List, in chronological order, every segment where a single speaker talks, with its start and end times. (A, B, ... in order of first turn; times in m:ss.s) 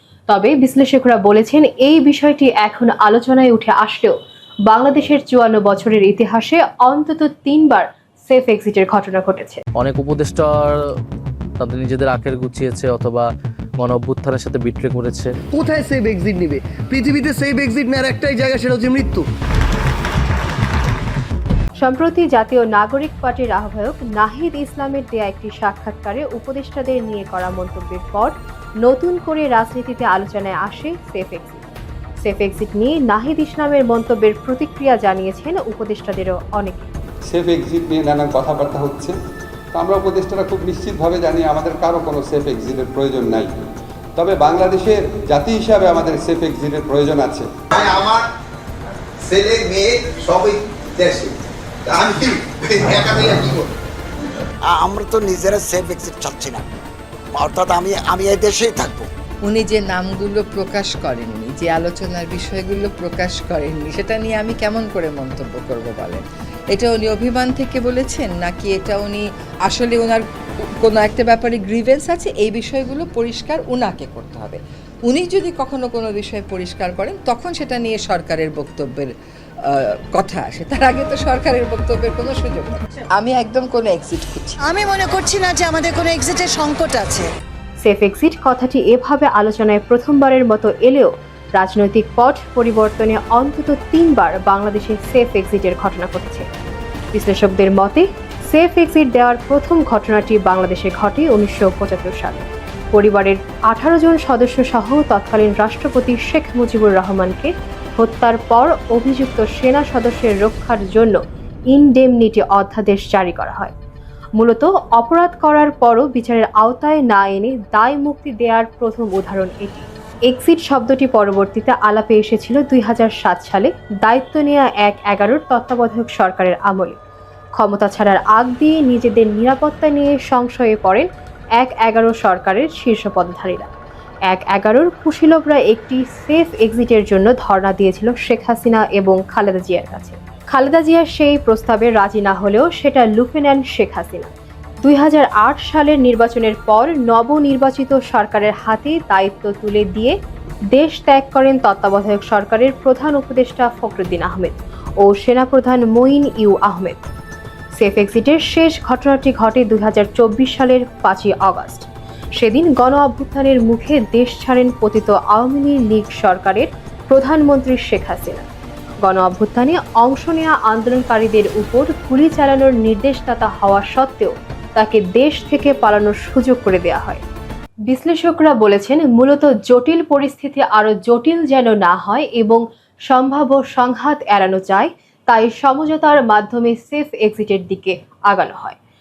0:00.3-0:04.1 A
0:04.7-0:09.6 A
0:09.8-0:10.9 B
0:11.6-0:15.3 B
0:15.5-0:19.3 C
0:21.8-0:31.6 A
0:32.2-0:36.9 A
0:37.2-0:39.1 D
0:39.7-0:43.5 D
0:44.2-0:47.5 D
0:47.7-0:48.2 E
0:49.2-0:53.7 E
0:54.6-0:56.6 F
0:57.3-0:59.1 F
0:59.4-1:10.2 G
1:10.8-1:19.1 G
1:19.7-1:24.6 G
1:24.6-1:27.3 H
1:27.8-1:36.5 A
1:37.1-1:51.2 A
1:51.7-1:53.7 A
1:54.4-2:07.0 A
2:07.6-2:13.7 A
2:14.3-2:24.3 A
2:24.8-2:30.1 A
2:30.7-2:37.1 A
2:37.7-2:48.4 A
2:49.0-2:57.2 A
2:57.9-3:08.8 A